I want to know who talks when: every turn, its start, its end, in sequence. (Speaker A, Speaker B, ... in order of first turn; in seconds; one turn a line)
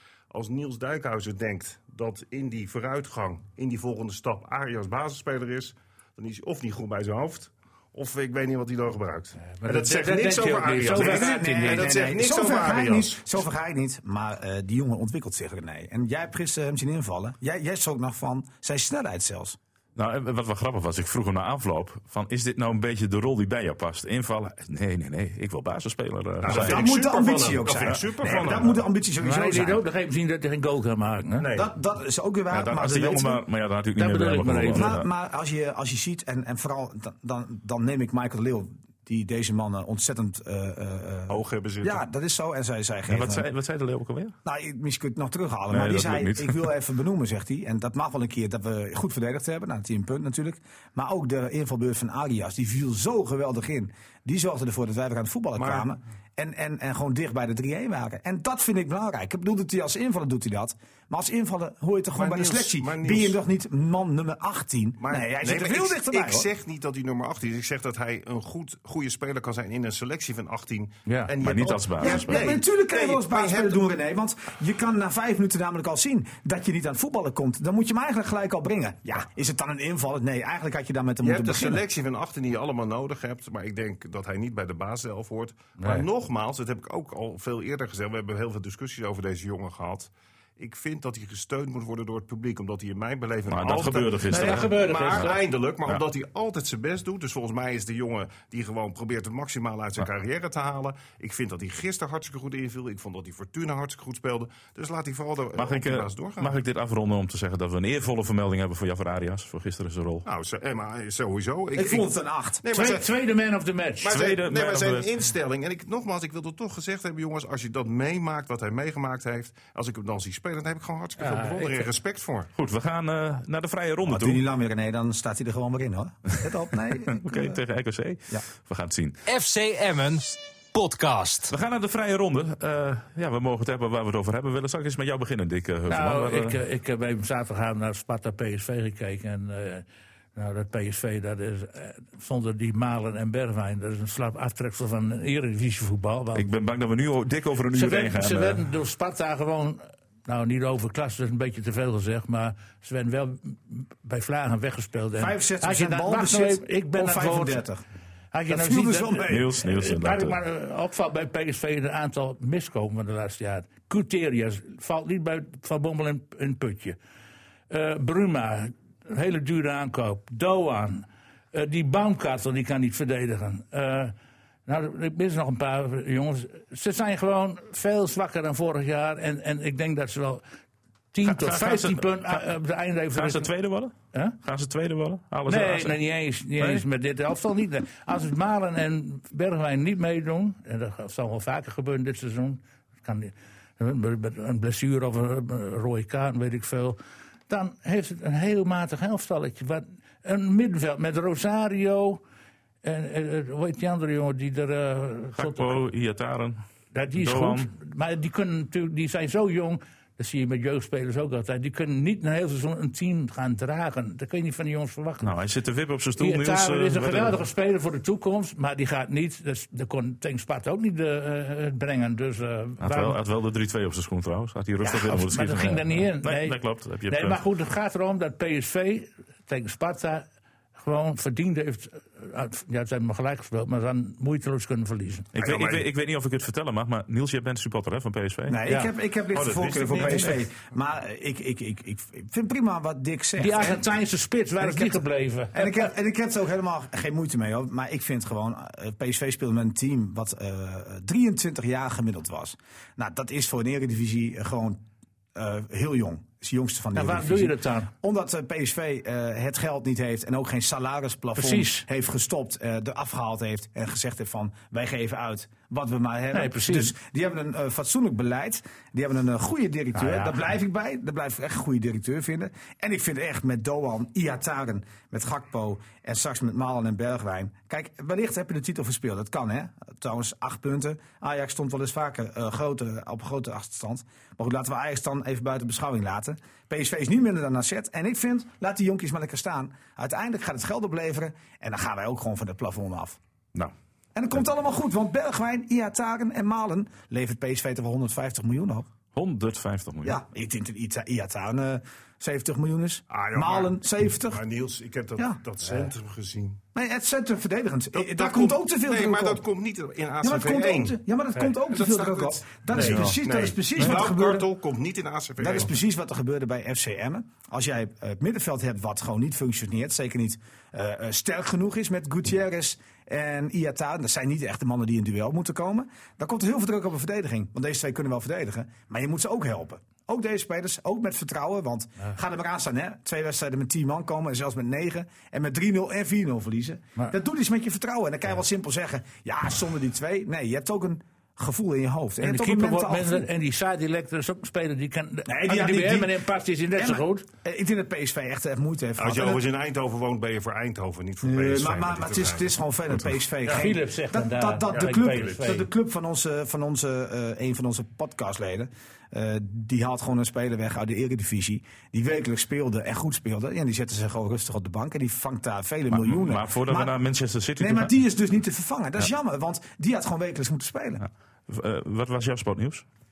Speaker A: 0.3-13.3
Speaker B: 9.4-11.9
Speaker C: 10.8-19.6
Speaker D: 19.9-26.9
Speaker A: 26.4-28.8
Speaker C: 26.4-29.8
Speaker B: 29.2-31.5
Speaker A: 31.4-31.7
Speaker C: 31.5-33.4
Speaker D: 32.5-35.0
Speaker B: 34.0-35.0
Speaker C: 34.7-43.5
Speaker A: 41.3-42.0
Speaker D: 43.1-44.3
Speaker C: 44.4-66.5
Speaker D: 45.7-46.6
Speaker A: 55.5-55.9
Speaker A: 62.1-63.4
Speaker A: 65.0-73.8
Speaker B: 71.0-71.3
Speaker D: 71.4-72.5
Speaker C: 72.0-81.8
Speaker A: 81.2-106.5
Speaker B: 85.8-86.0
Speaker D: 93.5-95.3
Speaker B: 94.3-95.3
Speaker D: 105.5-110.2
Speaker A: 110.2-112.1
Speaker C: 111.7-112.7
Speaker A: 112.6-113.1
Speaker B: 112.7-114.1
Speaker A: 114.0-122.5
Speaker D: 114.1-115.1
Speaker B: 121.2-121.9
Speaker D: 122.5-124.4
Speaker C: 124.0-127.6
Speaker D: 127.1-129.2
Speaker E: 129.2-131.5
Speaker D: 131.5-136.6
Speaker B: 135.9-139.8
Speaker B: 140.3-146.4
Speaker D: 146.3-148.6
Speaker B: 147.7-157.6
Speaker C: 155.2-157.8
Speaker B: 158.3-167.0
Speaker C: 158.5-159.5
Speaker D: 159.3-160.4
Speaker B: 167.7-174.1
Speaker B: 174.7-180.4
Speaker B: 181.1-183.5
Speaker D: 181.2-182.4
Speaker D: 183.1-186.0
Speaker B: 185.5-197.0
Speaker D: 186.6-186.8
Speaker B: 197.5-202.2
Speaker B: 202.8-205.8
Speaker D: 205.3-206.6
Speaker B: 206.9-215.3
Speaker D: 207.2-207.7
Speaker D: 215.2-217.4
Speaker B: 216.2-223.2
Speaker D: 222.8-227.4
Speaker B: 224.9-230.2
Speaker B: 230.8-235.2
Speaker D: 235.3-238.6
Speaker A: 235.3-235.9
Speaker C: 238.5-243.8
Speaker B: 238.7-238.9
Speaker A: 239.3-240.4
Speaker B: 239.9-240.3
Speaker B: 243.4-245.9
Speaker C: 244.6-254.8
Speaker C: 255.3-293.2
Speaker B: 256.9-257.9
Speaker B: 261.4-261.9
Speaker B: 266.3-266.9
Speaker B: 269.9-270.4
Speaker C: 294.1-298.9
Speaker D: 299.1-300.2
Speaker C: 300.0-304.4
Speaker A: 303.1-306.6
Speaker C: 306.7-309.4
Speaker A: 307.9-311.0
Speaker C: 310.2-314.5
Speaker A: 311.7-315.7
Speaker C: 315.4-343.3
Speaker B: 342.2-347.2
Speaker C: 345.2-346.2
Speaker C: 346.8-349.4
Speaker A: 349.0-352.5
Speaker C: 351.2-367.0
Speaker B: 353.5-355.7
Speaker A: 354.7-355.5
Speaker D: 365.9-367.9
Speaker C: 367.6-371.0
Speaker D: 371.5-372.8